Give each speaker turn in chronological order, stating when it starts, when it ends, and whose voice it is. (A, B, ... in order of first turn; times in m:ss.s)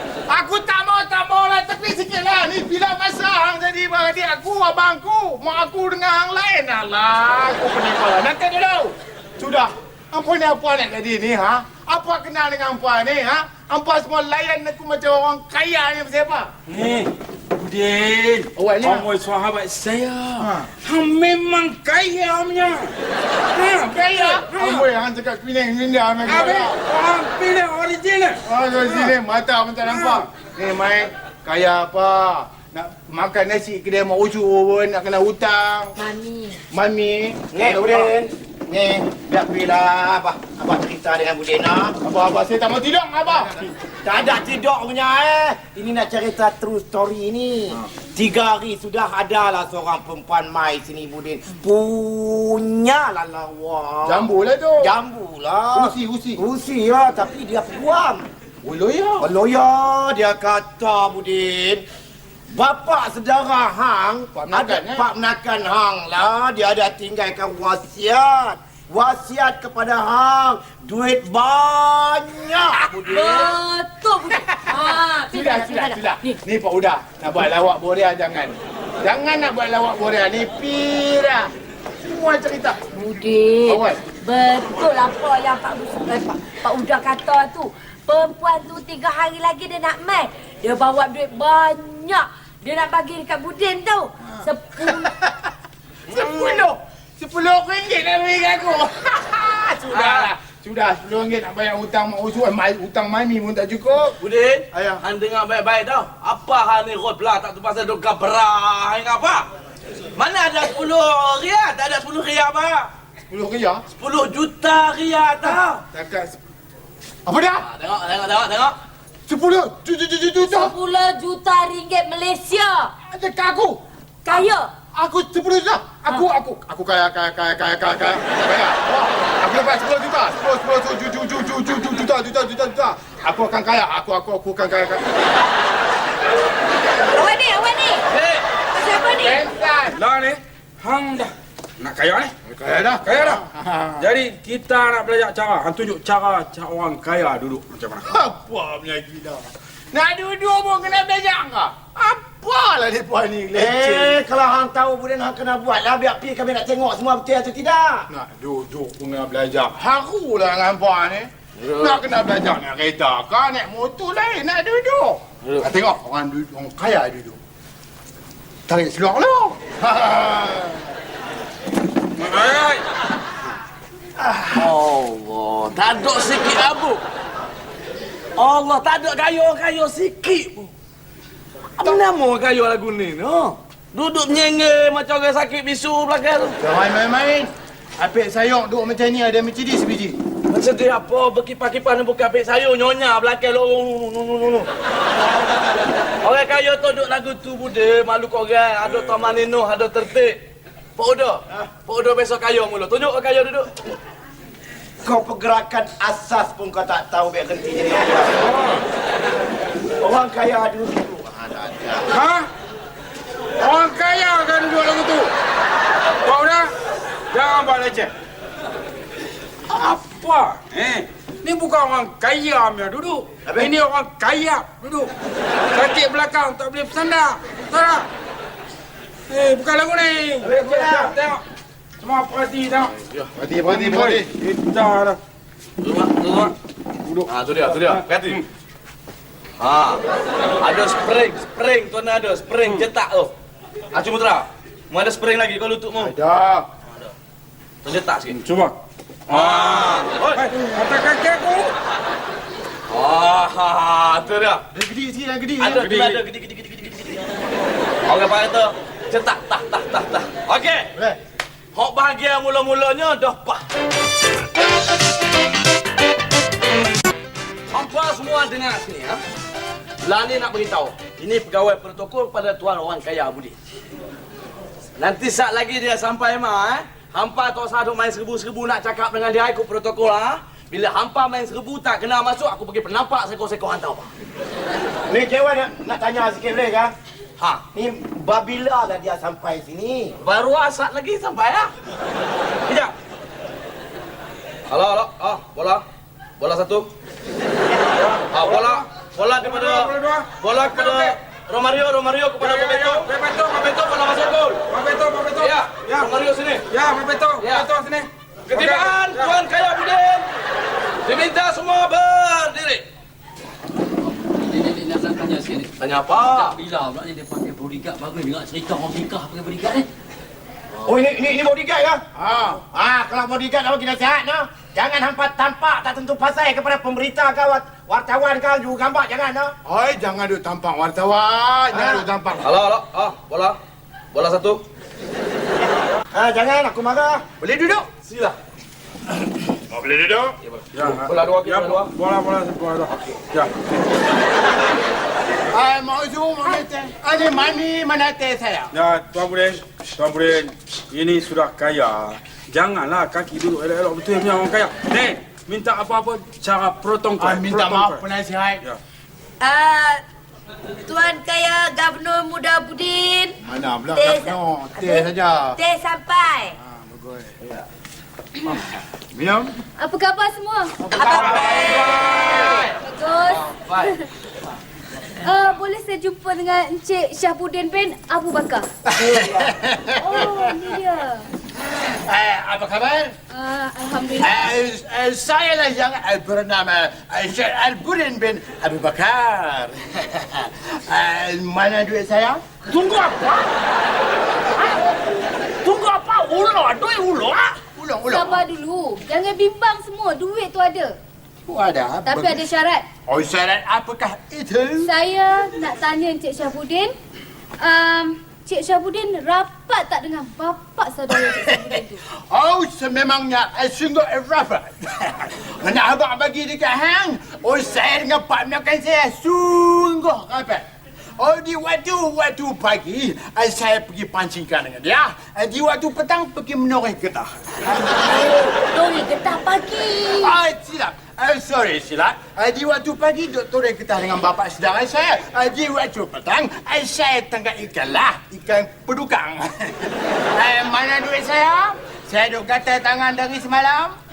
0:00.3-0:16.5 A
0:16.7-0:22.9 B
0:18.6-0:19.1 A
0:20.4-0:20.7 A
0:23.5-0:24.9 B
0:23.9-0:26.8 A
0:26.3-0:29.1 B
0:28.5-0:36.0 A
0:29.9-0:30.2 B
0:36.0-0:36.6 C
0:36.7-0:38.1 A
0:37.5-0:42.0 D
0:42.0-0:43.7 A
0:44.0-0:54.3 D
0:54.0-0:54.9 A
0:54.8-0:58.3 D
0:55.7-0:56.4 A
0:58.6-0:59.3 A
0:59.2-1:01.8 D
1:02.5-1:13.5 D
1:04.3-1:05.1 A
1:13.1-1:16.4 C
1:14.7-1:21.5 A
1:22.0-1:22.8 A
1:22.9-1:35.1 C
1:23.7-1:24.0 A
1:34.3-1:35.5 A
1:36.1-1:44.2 A
1:39.9-1:40.3 E
1:44.2-1:49.5 E
1:44.7-1:45.0 A
1:50.2-1:52.9 E
1:53.3-1:53.8 A
1:54.0-1:55.8 E
1:55.9-1:56.4 A
1:57.3-1:57.6 A
1:57.6-1:58.8 E
1:59.3-2:00.8 A
2:00.4-2:02.9 C
2:03.1-2:15.0 A
2:04.2-2:04.7 C
2:17.1-2:18.0 C
2:18.1-2:18.4 E
2:18.8-2:19.4 C
2:19.1-2:20.0 A
2:20.0-2:22.3 B
2:22.4-2:24.1 A
2:23.0-2:23.4 B
2:24.0-2:28.1 B
2:28.0-2:34.2 A
2:33.6-2:38.1 D
2:38.1-2:47.4 A
2:41.6-2:42.0 E
2:48.7-2:50.9 A
2:52.2-2:52.8 B
2:54.2-2:54.5 A
2:54.5-2:57.0 E
2:58.4-3:00.7 E
3:01.8-3:06.6 E
3:06.6-3:10.2 A
3:10.5-3:14.7 E
3:16.2-3:20.4 E
3:21.0-3:23.7 E
3:25.0-3:28.8 D
3:30.0-3:32.0 D
3:32.1-3:32.5 B
3:33.6-3:35.3 B
3:36.2-3:36.7 B
3:37.3-3:38.1 B
3:39.7-3:45.1 B
3:45.7-3:48.1 B
3:49.3-3:51.4 B
3:50.4-3:51.2 D
3:52.0-3:52.9 B
3:53.4-3:54.3 A
3:53.7-3:55.2 B
3:55.8-3:56.5 E
3:57.0-3:58.4 B
3:57.3-3:58.4 E
3:59.6-4:00.0 E
4:00.6-4:03.3 E
4:03.9-4:06.1 E
4:06.0-4:06.7 A
4:07.8-4:08.4 E
4:08.3-4:08.8 B
4:09.3-4:11.7 B
4:09.3-4:10.5 E
4:12.9-4:14.6 E
4:14.7-4:15.8 A
4:15.6-4:17.3 E
4:15.8-4:16.2 B
4:18.1-4:20.9 E
4:21.7-4:23.6 E
4:27.7-4:29.2 E
4:30.0-4:33.6 E
4:35.0-4:44.1 E
4:45.1-4:46.9 D
4:47.7-4:50.1 D
4:50.2-4:51.7 E
4:52.7-4:52.9 E
4:54.7-4:55.8 E
4:56.4-4:56.9 E
4:58.0-4:58.8 B
4:58.3-5:04.6 E
4:59.4-5:01.2 B
5:02.4-5:03.6 B
5:04.7-5:06.1 B
5:05.4-5:06.7 E
5:06.7-5:09.3 B
5:07.4-5:07.7 E
5:08.5-5:10.3 E
5:11.0-5:12.8 E
5:15.5-5:16.6 E
5:16.6-5:19.7 F
5:20.8-5:22.0 D
5:22.2-5:22.6 A
5:22.6-5:29.5 D
5:29.6-5:32.5 A
5:31.7-5:32.0 D
5:32.4-5:33.6 E
5:34.1-5:34.6 E
5:36.1-5:37.2 D
5:37.4-5:37.8 A
5:38.0-5:38.4 E
5:39.7-5:40.3 A
5:40.4-5:41.9 E
5:40.7-5:43.5 B
5:45.5-5:48.7 A
5:48.7-5:58.0 B
5:57.2-5:58.6 A
5:59.4-6:00.0 C
6:00.9-6:03.4 C
6:03.4-6:05.6 A
6:03.9-6:06.5 C
6:06.6-6:07.4 A
6:09.1-6:09.5 A
6:09.8-6:10.8 G
6:10.9-6:12.7 E
6:10.9-6:11.9 C
6:12.8-6:14.1 G
6:13.3-6:13.9 E
6:15.2-6:18.7 G
6:18.9-6:20.6 A
6:19.0-6:19.5 D
6:20.0-6:21.3 G
6:22.0-6:23.1 A
6:23.3-6:24.5 G
6:24.2-6:32.4 A
6:32.7-6:33.5 H
6:34.6-6:35.0 H
6:35.6-6:37.6 H
6:37.8-6:38.4 A
6:38.1-6:41.0 G
6:41.5-6:42.5 A
6:42.0-6:42.8 G
6:43.1-6:44.9 A
6:44.8-6:46.9 G
6:47.6-6:52.0 G
6:51.1-6:51.8 A
6:52.3-7:00.7 A
7:01.2-7:07.4 A
7:07.9-7:10.4 C
7:10.2-7:23.9 A